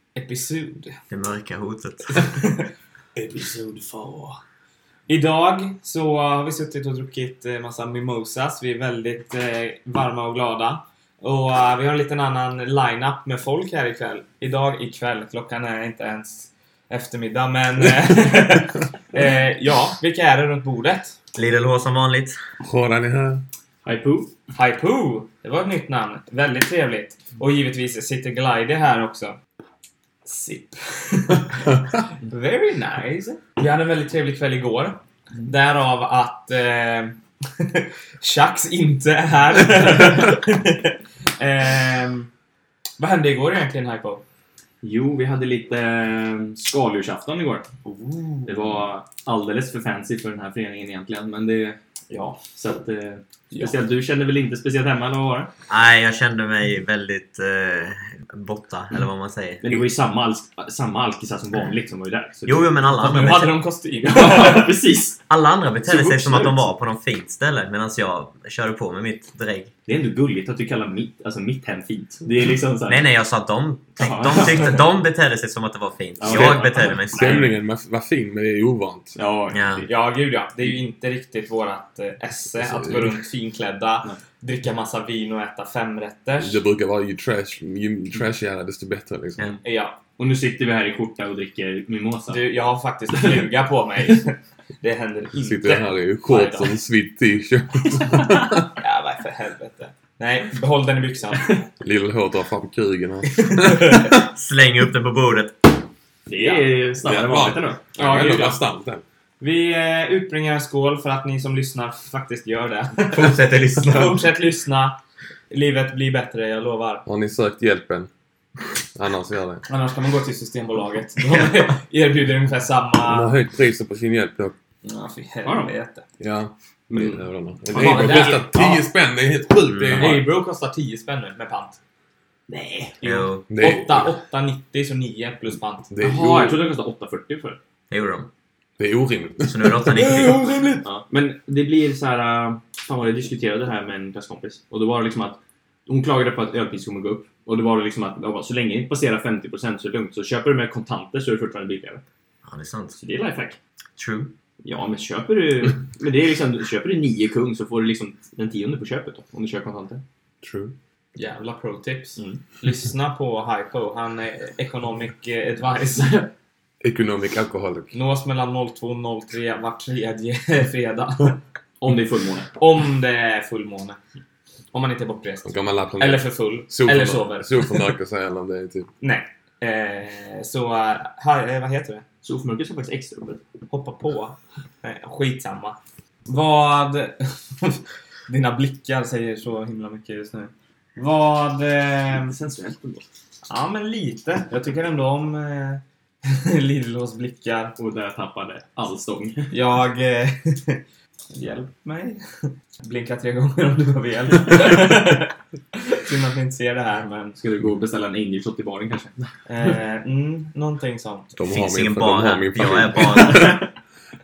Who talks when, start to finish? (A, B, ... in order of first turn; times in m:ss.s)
0:00.2-0:01.0 A
0:01.1-0:02.2 B
0:02.1-0:02.7 A
0:03.2-0:04.4 C
0:05.1-0:21.2 A
0:21.4-0:22.4 B
0:22.6-0:23.4 C
0:23.8-0:24.3 D
0:24.5-0:29.4 A
0:30.2-0:42.3 A
0:43.0-0:44.2 A
0:44.8-0:47.7 D
0:47.8-0:48.8 A
0:48.5-0:55.5 D
0:53.5-0:53.8 A
0:55.7-0:59.8 B
0:59.6-1:02.7 D
1:02.5-1:03.6 B
1:02.9-1:04.7 A
1:04.0-1:05.2 D
1:05.3-1:09.7 B
1:05.8-1:06.6 D
1:09.9-1:13.1 D
1:12.9-1:17.4 B
1:14.0-1:14.6 D
1:14.0-1:14.9 A
1:16.2-1:17.0 D
1:16.3-1:19.2 C
1:17.2-1:17.5 A
1:19.2-1:19.9 D
1:19.5-1:19.9 B
1:19.9-1:26.6 A
1:22.6-1:23.2 C
1:26.4-1:29.5 C
1:29.6-1:30.0 A
1:30.2-1:32.4 D
1:32.3-1:36.7 A
1:33.1-1:33.4 D
1:35.4-1:38.7 C
1:38.8-1:41.6 A
1:41.8-1:44.3 C
1:43.4-1:44.1 A
1:44.2-1:45.7 B
1:46.3-1:47.8 D
1:46.3-1:46.7 A
1:47.1-1:49.0 C
1:48.0-1:48.6 A
1:49.4-1:55.0 A
1:53.0-1:54.2 B
1:55.5-1:57.0 A
1:57.0-1:58.1 C
1:59.0-1:59.6 C
1:59.6-2:03.4 A
2:03.0-2:04.5 C
2:04.8-2:06.0 A
2:05.4-2:05.7 D
2:06.2-2:10.3 C
2:06.9-2:08.5 D
2:07.7-2:08.8 A
2:09.7-2:10.1 B
2:10.0-2:11.8 A
2:12.5-2:13.0 D
2:13.0-2:15.9 A
2:13.0-2:13.5 B
2:13.5-2:14.1 C
2:15.9-2:16.6 C
2:16.0-2:17.6 D
2:17.9-2:18.3 B
2:18.8-2:20.3 C
2:19.5-2:20.4 B
2:19.9-2:20.9 A
2:20.8-2:32.0 D
2:32.5-2:33.0 B
2:33.0-2:33.6 D
2:34.0-2:34.3 B
2:34.6-2:40.0 D
2:40.4-2:40.8 C
2:41.2-2:46.3 A
2:46.8-2:48.0 C
2:47.9-2:51.4 A
2:51.8-2:52.5 D
2:52.6-2:54.0 A
2:54.7-2:57.9 A
2:55.5-2:58.9 C
2:59.0-3:02.0 A
3:02.2-3:03.4 D
3:03.7-3:12.4 A
3:12.1-3:13.1 D
3:13.5-3:17.8 A
3:17.8-3:19.5 D
3:19.5-3:20.8 A
3:21.3-3:27.4 A
3:27.4-3:29.2 D
3:29.5-3:31.4 A
3:31.4-3:33.6 C
3:31.5-3:33.6 B